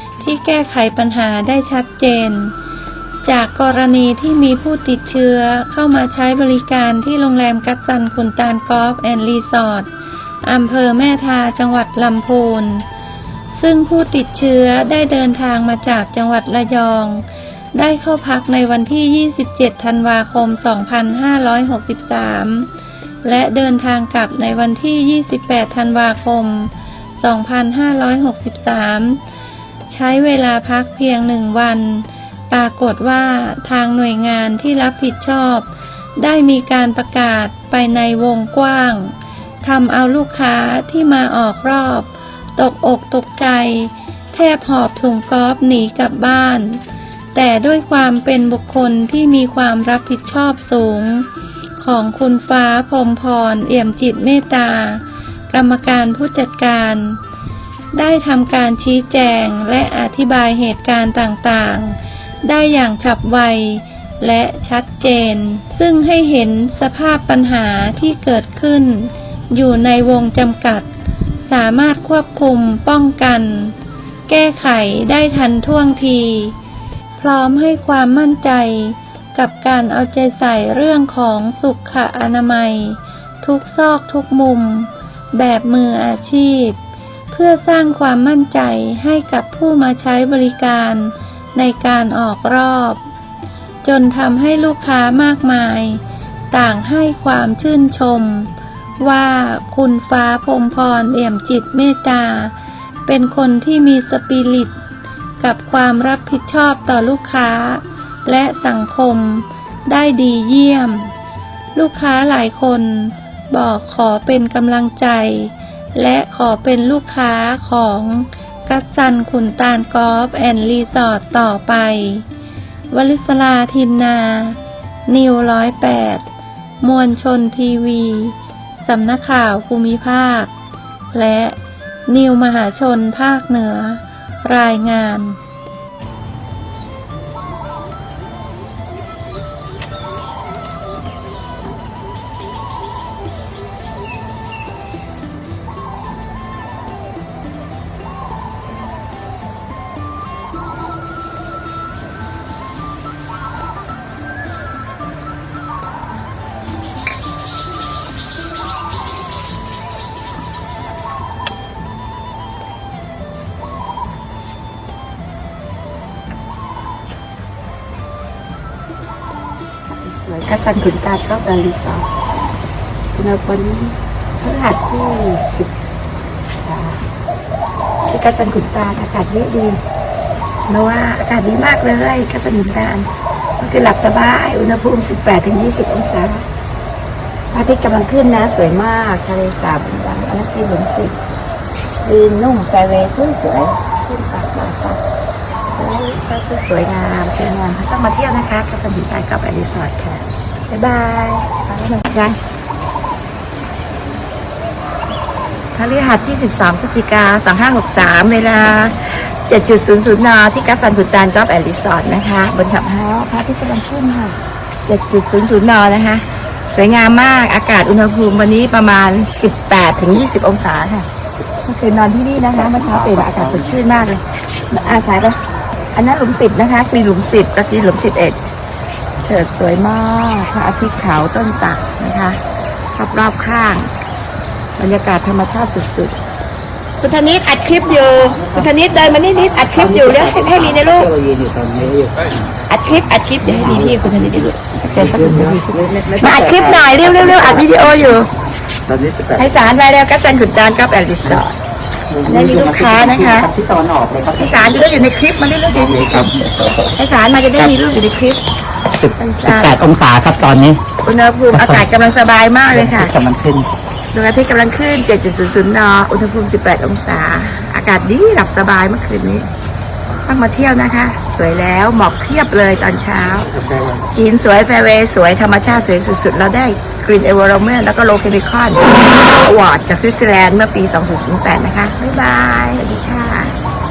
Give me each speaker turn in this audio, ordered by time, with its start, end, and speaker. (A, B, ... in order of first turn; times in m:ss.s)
0:00.2-0:02.6 A
0:03.2-0:09.9 A
0:10.4-0:12.8 A
0:13.6-0:22.7 A
0:23.2-0:29.2 A
0:29.9-0:46.8 A
0:47.3-0:51.3 A
0:51.8-0:57.2 A
0:57.9-1:10.9 A
1:11.4-1:13.8 A
1:14.3-1:16.6 A
1:17.2-1:26.8 A
1:27.3-1:33.0 A
1:33.8-1:36.0 A
1:36.5-1:42.5 A
1:43.1-1:44.7 A
1:45.4-1:51.1 A
1:51.8-2:02.2 A
2:02.9-2:06.2 A
2:06.8-2:10.5 A
2:11.1-2:15.4 A
2:49.9-2:52.1 B
2:53.1-2:55.7 B
2:56.6-2:57.0 B
2:58.1-2:59.8 B
3:00.7-3:03.1 B
3:03.6-3:06.4 B
3:07.5-3:11.2 B
3:12.0-3:15.0 B
3:15.7-3:22.4 B
3:25.8-3:41.1 B
3:41.6-3:45.4 B
3:42.6-3:43.8 C
3:46.0-3:48.4 B
3:49.2-3:52.4 B
3:53.0-3:53.9 B
3:54.8-3:56.2 B
3:57.0-4:01.1 B
3:58.0-4:02.5 C
4:02.7-4:08.3 B
4:03.4-4:08.2 C
4:08.9-4:09.5 C
4:09.4-4:11.5 B
4:12.1-4:15.1 C
4:12.2-4:13.5 B
4:14.3-4:16.3 B
4:15.7-4:16.5 C
4:16.9-4:18.4 B
4:19.0-4:20.8 C
4:19.1-4:19.9 B
4:21.0-4:23.1 B
4:21.5-4:21.8 C
4:22.7-4:23.7 C
4:24.1-4:29.5 B
4:30.2-4:33.6 B
4:34.1-4:43.5 B